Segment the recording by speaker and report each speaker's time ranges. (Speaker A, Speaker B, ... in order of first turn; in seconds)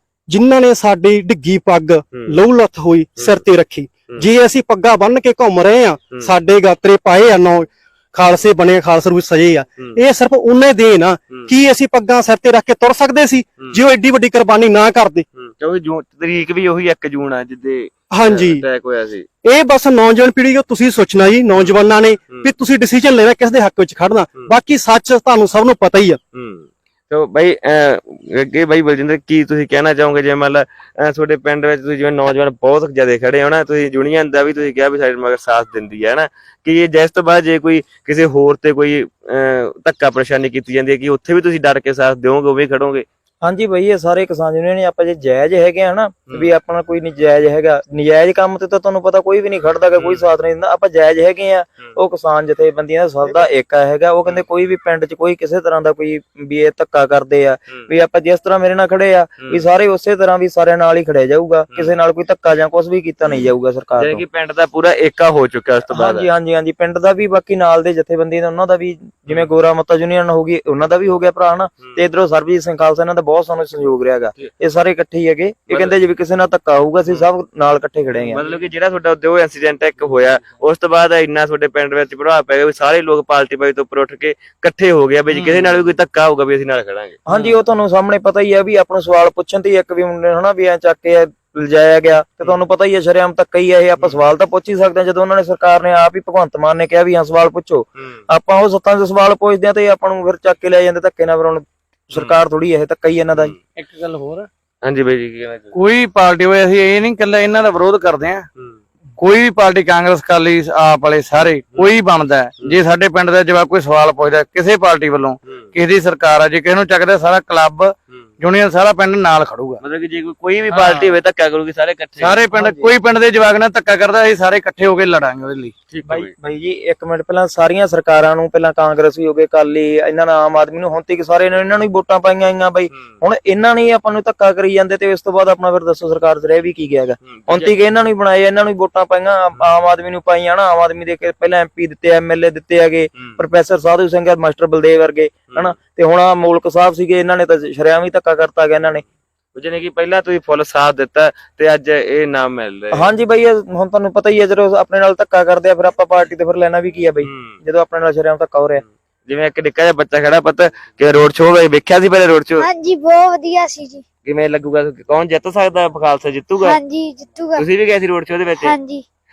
Speaker A: 0.3-15.2, 18.1-18.6, 19.4-26.2
Speaker B: 3.2-3.4, 15.4-19.3, 26.3-43.0, 50.0-50.2, 64.0-66.3, 75.7-76.0, 78.3-87.2, 104.8-105.7, 119.8-122.5, 125.9-126.3, 137.2-137.7, 149.6-153.1, 157.2-157.6, 159.3-162.7, 164.2-166.8, 167.6-168.8
Speaker C: 43.4-64.2, 65.9-78.4, 87.3-103.5, 122.5-122.9, 126.0-149.0, 152.9-158.8
Speaker D: 103.8-104.5, 105.7-108.5, 109.2-119.8, 120.7-121.2, 122.2-125.7
Speaker E: 162.6-164.0, 166.6-167.6, 168.6-169.0